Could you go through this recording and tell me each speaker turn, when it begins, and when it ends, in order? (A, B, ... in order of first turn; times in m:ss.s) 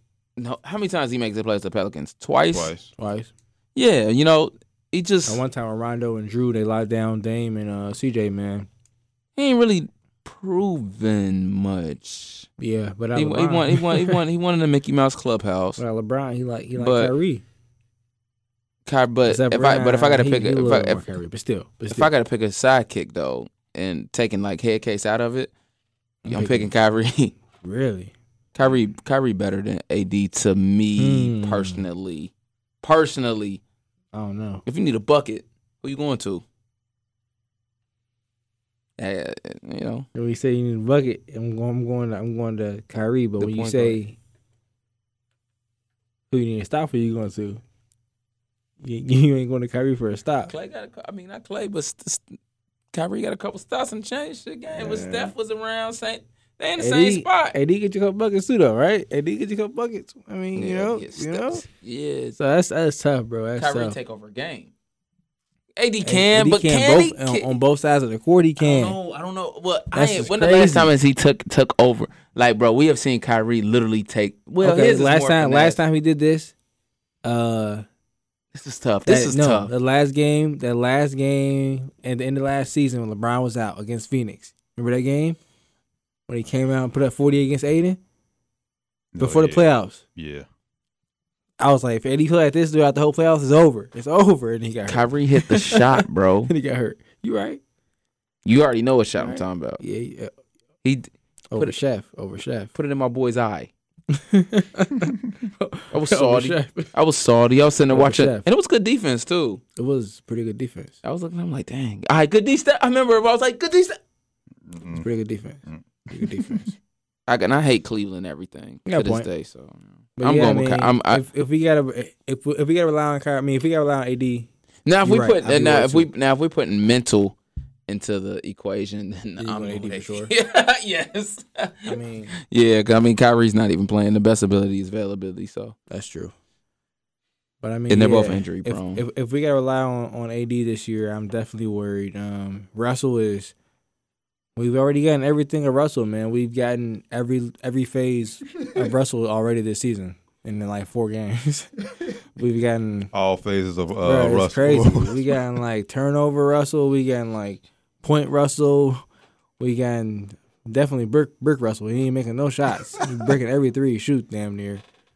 0:00.4-0:02.7 A
0:02.5-0:02.9 B
0:03.0-0:03.3 C
0:03.8-0:05.4 A
0:05.3-0:08.7 C
0:09.4-0:12.5 A
0:12.6-0:14.2 C
0:13.2-0:15.8 A
0:15.8-0:17.4 C
0:16.8-0:17.1 A
0:18.9-0:21.2 A
0:19.3-0:22.1 C
0:21.9-0:25.5 A
0:26.2-0:26.7 C
0:26.3-0:27.3 A
0:27.6-0:28.1 C
0:28.6-0:33.6 A
0:31.0-0:31.8 C
0:34.1-0:34.6 C
0:34.7-0:36.4 A
0:39.0-0:40.1 A
0:40.2-0:44.2 C
0:43.4-0:44.0 A
0:46.3-0:47.6 C
0:48.8-0:50.5 C
0:50.5-0:52.2 A
0:52.9-0:57.6 A
0:54.7-0:55.3 C
0:56.8-1:01.6 C
1:00.6-1:02.4 A
1:02.4-1:04.0 C
1:03.6-1:04.7 A
1:05.8-1:07.5 A
1:06.0-1:09.0 C
1:08.6-1:15.8 A
1:09.9-1:10.9 C
1:14.6-1:16.5 C
1:17.2-1:17.9 C
1:18.5-1:19.7 A
1:19.1-1:25.4 C
1:26.3-1:28.0 C
1:29.1-1:30.5 B
1:29.2-1:30.0 C
1:31.6-1:37.6 C
1:34.9-1:36.5 A
1:38.4-1:39.8 A
1:39.2-1:40.3 C
1:40.8-1:41.8 A
1:41.5-1:42.7 C
1:42.7-1:43.7 A
1:44.1-1:46.9 C
1:45.9-1:49.6 A
1:47.9-1:48.4 C
1:49.8-1:51.0 C
1:51.0-1:54.0 A
1:54.7-1:55.1 B
1:54.9-1:56.7 C
1:55.7-1:56.7 B
1:57.3-2:01.2 A
1:58.9-1:59.3 C
2:00.2-2:04.5 C
2:04.9-2:07.4 A
2:05.0-2:06.1 C
2:07.9-2:12.0 A
2:09.4-2:10.3 C
2:11.9-2:12.3 C
2:12.5-2:15.8 A
2:15.9-2:16.3 C
2:17.6-2:23.5 C
2:17.9-2:19.0 A
2:24.6-2:31.7 C
2:32.4-2:33.1 C
2:33.1-2:35.4 B
2:34.0-2:39.0 C
2:39.6-2:44.8 C